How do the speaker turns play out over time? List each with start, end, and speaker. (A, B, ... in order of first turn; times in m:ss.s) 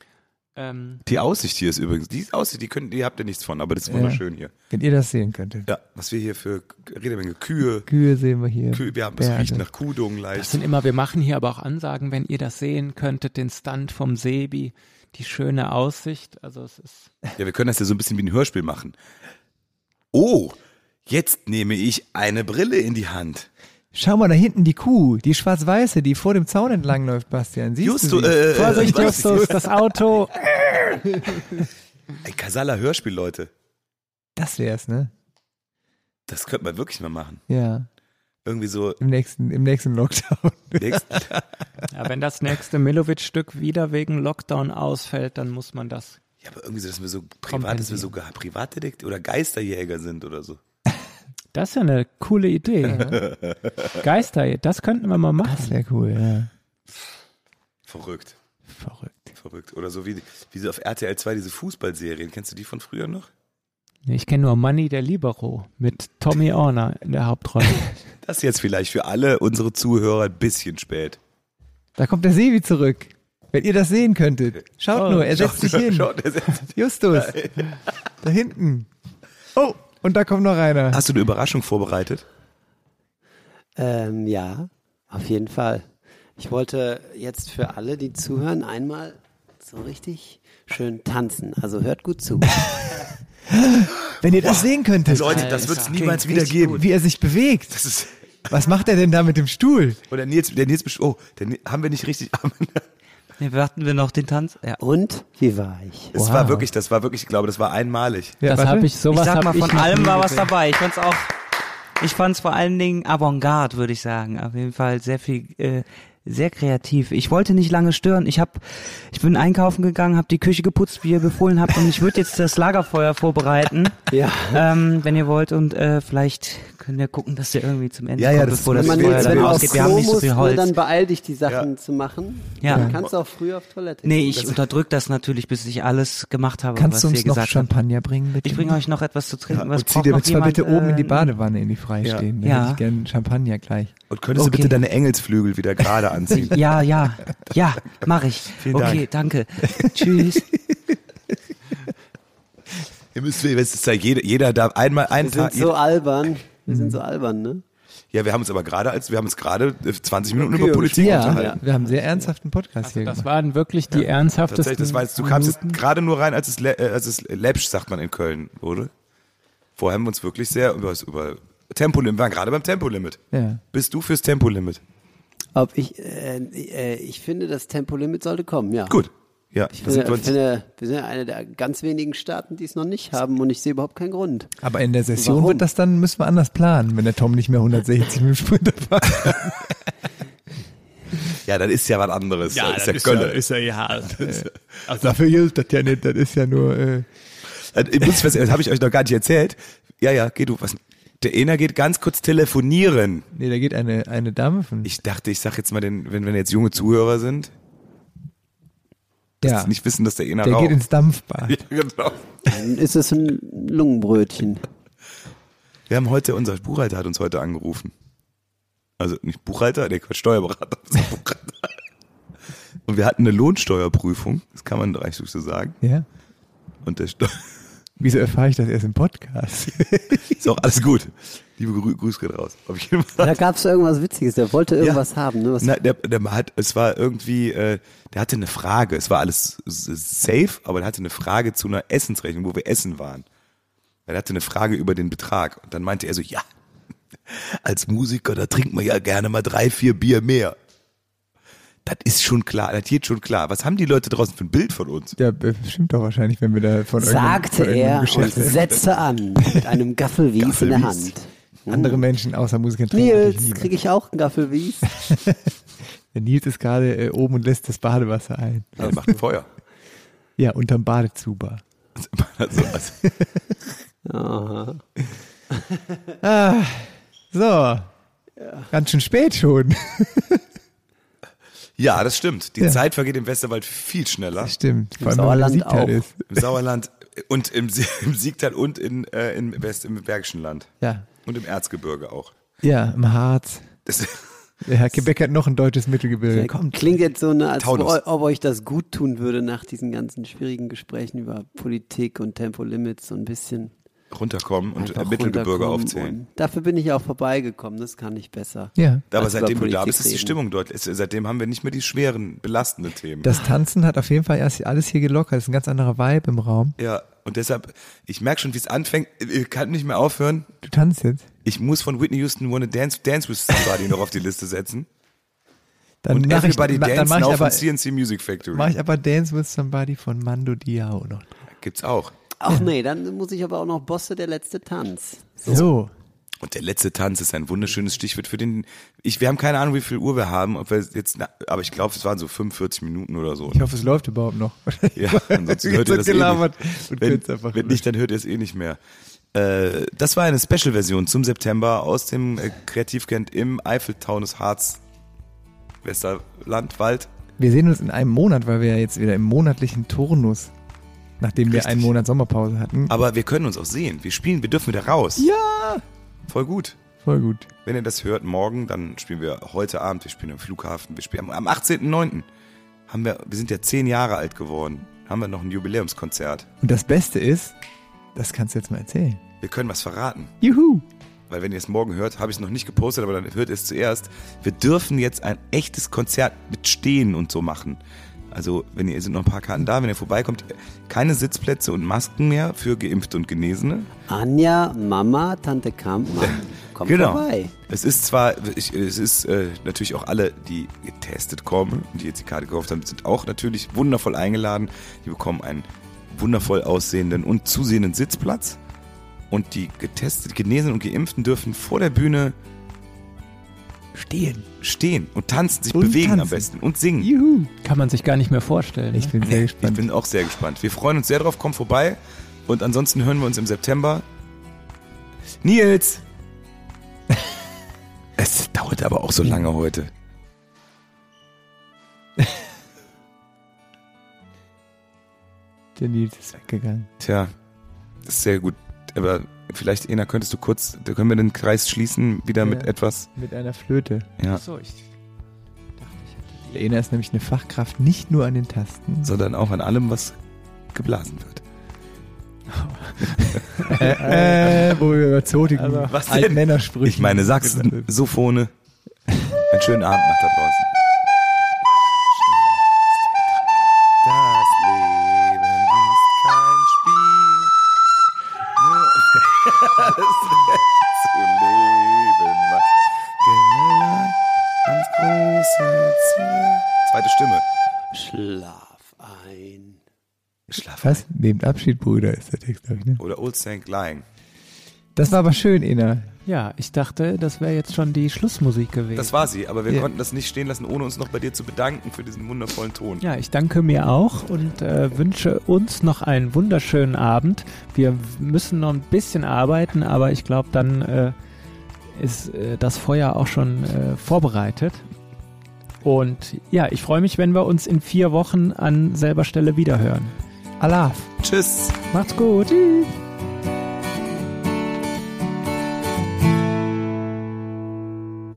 0:00.6-0:01.0 A
0:01.0-0:04.5 B
0:03.8-0:05.7 C
0:05.6-0:07.9 B
0:07.9-0:09.6 C
0:08.7-0:10.6 B
0:10.3-0:17.1 A
0:17.4-0:18.9 B
0:20.1-0:23.5 B
0:23.9-0:29.6 C
0:27.8-0:29.6 B
0:28.5-0:30.4 A
0:30.7-0:31.4 C
0:32.2-0:33.5 B
0:34.4-0:35.1 C
0:36.3-0:37.4 B
0:37.5-0:37.9 C
0:38.4-0:39.0 B
0:39.0-0:41.4 C
0:40.8-0:41.3 B
0:41.9-0:46.2 A
0:46.4-0:50.6 B
0:47.5-0:48.1 A
0:51.5-0:53.2 A
0:52.9-0:53.2 C
0:53.1-0:53.9 B
0:53.9-0:55.8 A
0:55.4-0:56.5 C
0:57.9-0:58.4 B
0:58.7-0:59.3 C
0:59.3-1:03.3 B
1:04.0-1:07.9 A
1:08.2-1:11.2 B
1:12.0-1:17.5 C
1:14.9-1:17.7 B
1:18.2-1:18.9 C
1:19.5-1:21.0 C
1:20.9-1:22.2 B
1:23.8-1:32.6 D
1:33.5-1:35.5 C
1:34.4-1:36.8 B
1:35.1-1:36.8 E
1:36.6-1:37.8 C
1:37.7-1:38.5 B
1:38.5-1:40.0 C
1:40.1-1:42.8 B
1:43.4-1:44.8 E
1:44.8-1:46.1 D
1:46.1-1:48.4 B
1:46.1-1:46.6 C
1:48.4-1:48.9 C
1:48.4-1:50.5 A
1:49.0-1:51.4 E
1:52.0-2:10.7 E
2:04.1-2:04.6 D
2:08.2-2:10.3 B
2:08.7-2:14.6 D
2:12.6-2:13.0 E
2:14.0-2:17.7 E
2:16.7-2:18.8 C
2:18.4-2:21.3 E
2:19.5-2:20.3 B
2:20.1-2:23.9 C
2:22.0-2:22.3 B
2:22.4-2:22.8 E
2:24.1-2:26.6 B
2:24.3-2:24.8 E
2:26.3-2:30.5 E
2:28.6-2:29.1 B
2:29.8-2:30.3 C
2:33.1-2:35.7 B
2:35.2-2:37.6 D
2:36.7-2:37.0 C
2:38.1-2:41.6 B
2:40.3-2:41.6 D
2:41.0-2:43.2 C
2:42.8-2:45.8 A
2:43.9-2:48.9 B
2:49.8-2:53.2 B
2:53.3-2:53.6 C
2:53.7-2:54.8 B
2:55.5-2:59.0 D
2:58.9-3:00.4 B
2:59.7-3:04.5 D
3:04.6-3:09.9 C
3:05.2-3:05.6 D
3:11.4-3:13.5 B
3:12.5-3:14.2 A
3:14.0-3:17.1 C
3:17.7-3:23.3 B
3:23.3-3:24.9 C
3:24.8-3:27.5 B
3:29.4-3:30.8 B
3:29.4-3:29.7 C
3:30.4-3:31.6 C
3:31.4-3:32.3 B
3:32.4-3:34.7 D
3:35.9-3:37.9 B
3:39.0-3:41.7 B
3:42.9-3:45.8 B
3:45.8-3:46.1 C
3:46.8-3:47.5 B
3:48.0-3:50.4 C
3:50.3-3:53.4 B
3:53.2-3:55.7 D
3:55.6-4:03.2 B
4:04.1-4:06.4 B
4:07.3-4:10.6 B
4:11.8-4:15.2 B
4:15.2-4:18.7 C
4:17.0-4:22.0 D
4:20.4-4:21.1 B
4:21.7-4:23.7 C
4:22.9-4:24.9 D
4:24.9-4:25.5 C
4:26.1-4:29.0 C
4:28.8-4:29.5 B
4:30.4-4:31.6 C
4:32.0-4:33.1 B
4:34.0-4:34.8 D
4:35.5-4:35.8 D
4:36.2-4:37.9 C
4:38.4-4:38.7 D
4:38.7-4:40.4 C
4:41.8-4:44.5 B
4:44.4-4:46.3 C
4:45.0-4:46.0 D
4:46.3-4:50.7 B
4:50.8-4:51.1 C
4:51.2-4:52.3 B
4:52.6-4:53.7 C
4:53.8-4:54.3 B
4:54.6-4:57.0 C
4:56.3-5:03.7 D
4:57.6-4:58.0 B
5:04.1-5:06.2 B
5:04.8-5:10.4 D
5:08.8-5:09.0 C
5:09.1-5:13.3 B
5:13.2-5:16.8 C
5:16.8-5:20.5 B
5:20.6-5:21.3 C
5:21.4-5:24.9 B
5:26.0-5:27.6 C
5:26.1-5:28.7 B
5:28.5-5:31.4 C
5:31.6-5:32.1 B
5:32.4-5:35.6 D
5:35.4-5:35.9 C
5:36.4-5:43.7 B
5:43.5-5:47.8 C
5:44.9-5:48.8 B
5:49.3-5:54.8 B
5:55.8-5:57.1 B
5:57.4-6:00.5 C
6:01.2-6:02.9 C
6:01.5-6:01.9 B
6:02.9-6:05.3 B
6:05.2-6:05.8 C
6:06.3-6:06.8 B
6:07.0-6:07.5 C
6:07.6-6:12.2 B
6:12.9-6:16.5 B
6:16.6-6:17.6 C
6:18.1-6:19.2 C
6:19.4-6:20.3 B
6:20.4-6:20.8 C
6:21.3-6:27.8 B
6:28.3-6:33.9 B
6:34.1-6:37.5 D
6:36.2-6:48.6 B
6:49.3-6:52.3 B
6:53.9-6:54.5 C
6:54.6-6:57.1 B
6:55.7-6:57.5 C
6:57.6-6:59.1 A
6:58.9-6:59.9 C
6:59.2-7:04.0 B
7:05.4-7:06.0 B
7:08.2-7:09.9 B
7:15.8-7:16.9 C
7:17.0-7:17.3 B
7:18.0-7:23.1 B
7:22.4-7:24.1 C
7:24.3-7:24.9 A
7:25.8-7:26.6 A
7:26.5-7:29.1 C
7:29.0-7:30.2 B
7:30.7-7:31.4 B
7:32.5-7:34.8 A
7:33.6-7:34.1 B
7:33.7-7:37.9 C
7:35.5-7:36.0 A
7:35.9-7:38.5 B
7:39.5-7:40.7 B
7:42.1-7:43.4 B
7:44.0-7:47.5 B
7:48.6-7:57.4 B
7:57.9-7:59.8 D
8:00.5-8:01.0 B
8:00.8-8:03.0 C
8:03.0-8:04.0 B
8:05.0-8:06.2 C
8:06.2-8:09.2 A
8:08.9-8:13.0 B
8:13.0-8:21.2 A
8:21.9-8:24.8 A
8:25.8-8:30.1 A
8:30.6-8:31.0 C
8:31.2-8:31.8 B
8:31.9-8:33.0 A